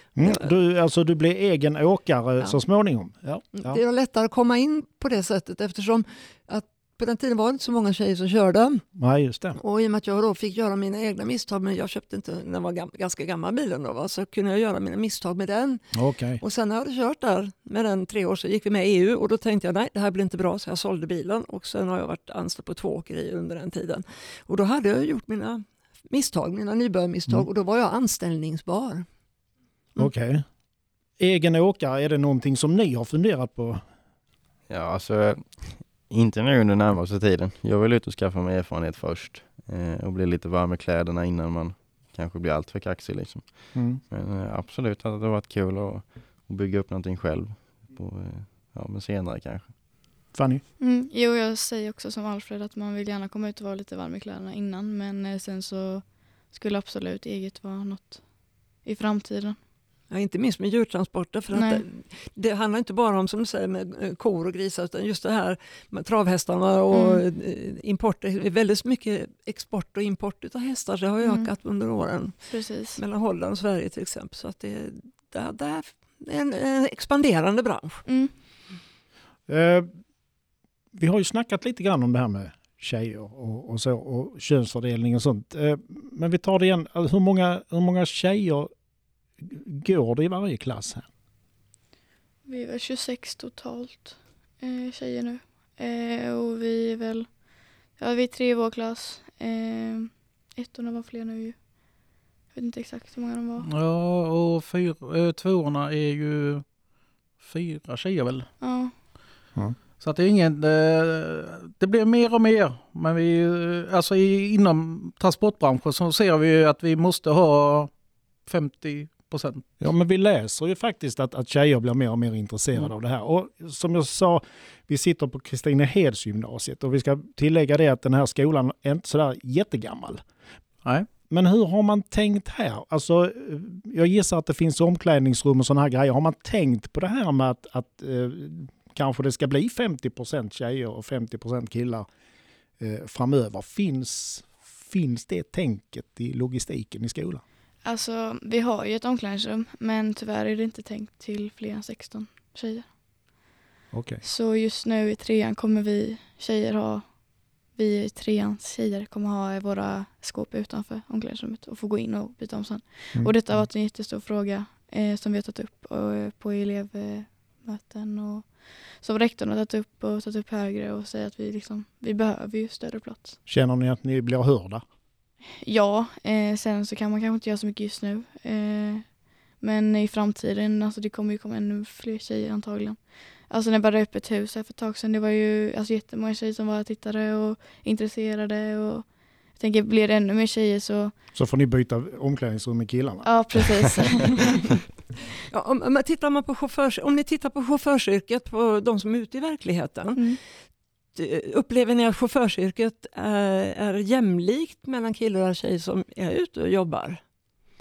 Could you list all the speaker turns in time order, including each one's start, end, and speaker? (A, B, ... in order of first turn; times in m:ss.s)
0:00.2-0:03.8 A
0:00.2-0:00.5 B
0:03.6-0:08.8 B
0:09.0-0:09.6 A
0:09.6-0:15.8 B
0:15.9-0:16.4 A
0:16.4-0:29.1 B
0:30.0-0:30.4 A
0:31.2-0:33.8 A
0:34.7-0:49.7 C
0:43.7-0:44.0 A
0:50.3-0:50.6 A
0:50.8-0:59.6 D
1:00.1-1:18.0 B
1:01.5-1:01.8 D
1:06.9-1:07.2 D
1:11.2-1:11.5 D
1:12.5-1:13.0 D
1:18.1-1:18.3 D
1:19.5-1:19.9 A
1:20.9-1:28.7 A
1:29.4-1:31.1 A
1:32.5-1:37.4 D
1:38.0-1:41.7 D
1:42.5-1:43.7 D
1:43.6-1:46.7 E
1:47.4-1:48.5 E
1:48.6-1:48.9 D
1:50.0-1:57.9 E
1:58.5-1:59.7 E
1:59.8-2:10.2 A
2:11.3-2:22.1 A
2:22.8-2:27.4 A
2:27.8-2:32.9 D
2:33.9-2:34.2 A
2:34.2-2:37.2 D
2:37.7-2:53.4 D
2:43.1-2:43.6 A
2:53.5-2:54.8 A
2:55.6-3:11.1 D
3:11.3-3:13.9 A
3:13.2-3:14.7 D
3:15.5-3:20.4 B
3:21.1-3:27.2 B